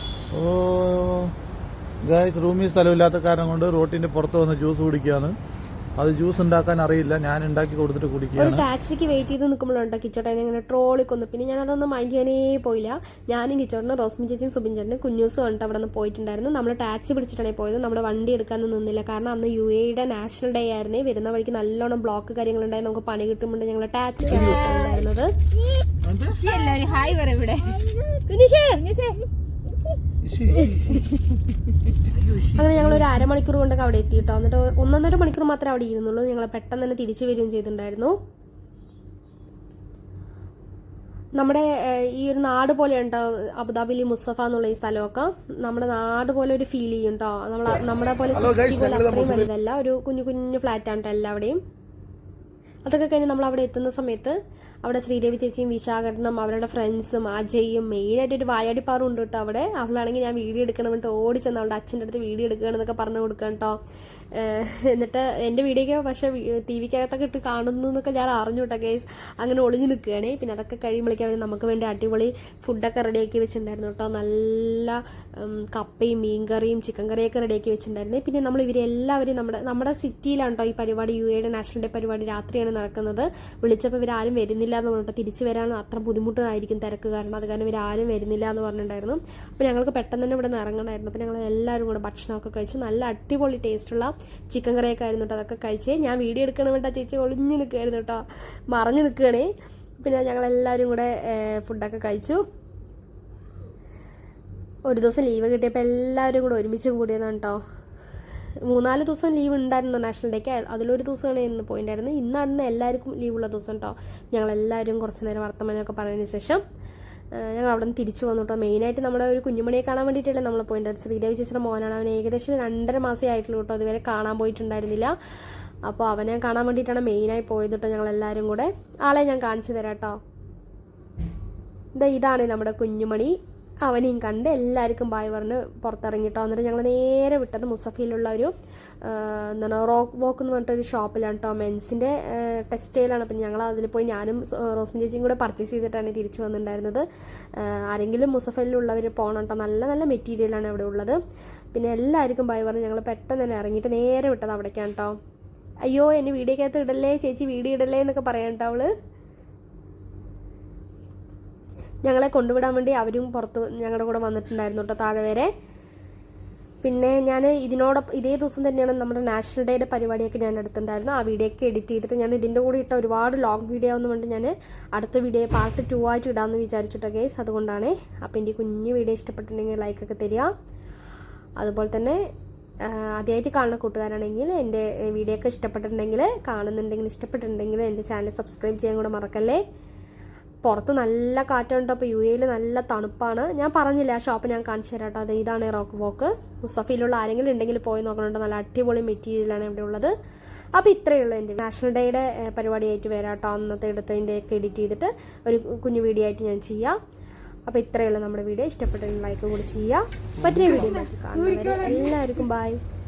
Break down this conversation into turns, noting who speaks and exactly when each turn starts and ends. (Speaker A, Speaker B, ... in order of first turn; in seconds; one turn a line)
Speaker A: 0.3-1.3
Speaker A: 2.0-5.4
Speaker A: 6.0-8.7
Speaker B: 8.4-25.3
Speaker A: 24.3-24.6
Speaker C: 24.4-24.9
Speaker A: 26.1-26.3
Speaker C: 26.3-28.0
Speaker B: 28.3-28.8
Speaker C: 28.7-29.3
Speaker A: 30.4-31.0
Speaker B: 32.4-38.2
Speaker B: 41.4-51.6
Speaker A: 48.3-49.5
Speaker B: 52.9-63.8
Speaker B: 64.3-102.4
Speaker B: 104.9-107.6
Speaker B: 108.7-116.6
Speaker B: 117.4-125.1
Speaker B: 125.9-130.2
Speaker B: 131.9-138.5
Speaker B: 139.0-151.2
Speaker B: 151.7-155.2
Speaker B: 155.9-158.9
Speaker B: 162.0-165.5
Speaker B: 166.8-180.5
Speaker B: 181.6-182.2
Speaker B: 182.8-189.6
Speaker B: 190.6-200.1
Speaker B: 200.8-207.0
Speaker B: 207.7-212.8
Speaker C: 210.7-212.3